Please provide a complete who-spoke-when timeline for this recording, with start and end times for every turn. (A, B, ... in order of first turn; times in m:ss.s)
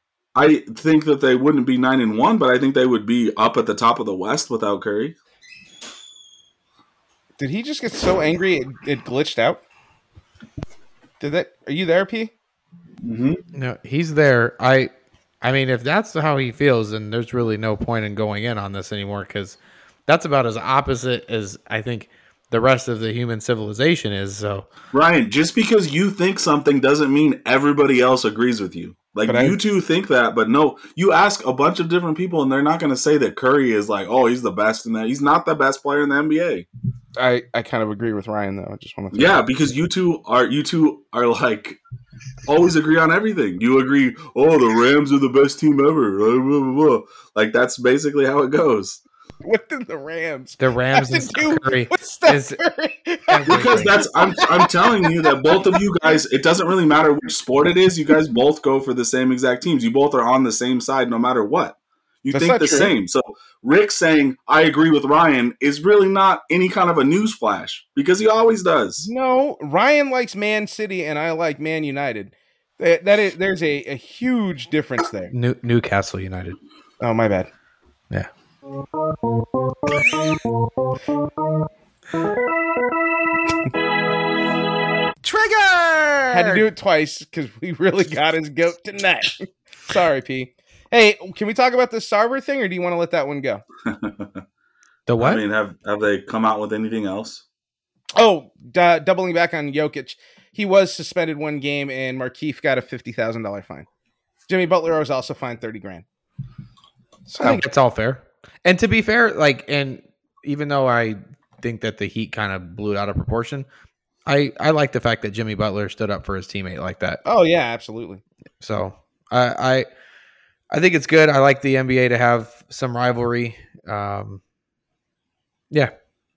0:00.3-0:05.2 A
0:07.4-0:09.6 B
0:11.2-0:12.3 B
0:13.0-0:13.4 A
0:13.5-0:14.9 C
0:15.4-0:24.7 C
0:24.9-0:36.7 A
0:29.3-0:29.6 B
0:37.2-0:39.5 B
0:39.1-0:41.8 A
0:42.4-0:49.0 A
0:49.4-0:55.8 B
0:50.6-0:52.6 C
0:53.3-0:54.0 C
0:53.4-1:09.1 A
1:02.3-1:02.9 B
1:09.0-1:15.3 B
1:15.3-1:16.6 C
1:17.0-1:17.5 B
1:25.2-1:26.6 C
1:26.3-1:33.6 B
1:33.8-1:34.4 A
1:35.1-1:35.4 C
1:35.2-1:37.4 A
1:38.2-1:43.9 B
1:44.5-1:46.0 B
1:47.3-1:47.6 B
1:47.4-1:53.6 C
1:54.2-1:57.2 C
1:57.2-1:58.2 B
1:58.6-1:59.9 C
2:00.7-2:04.4 C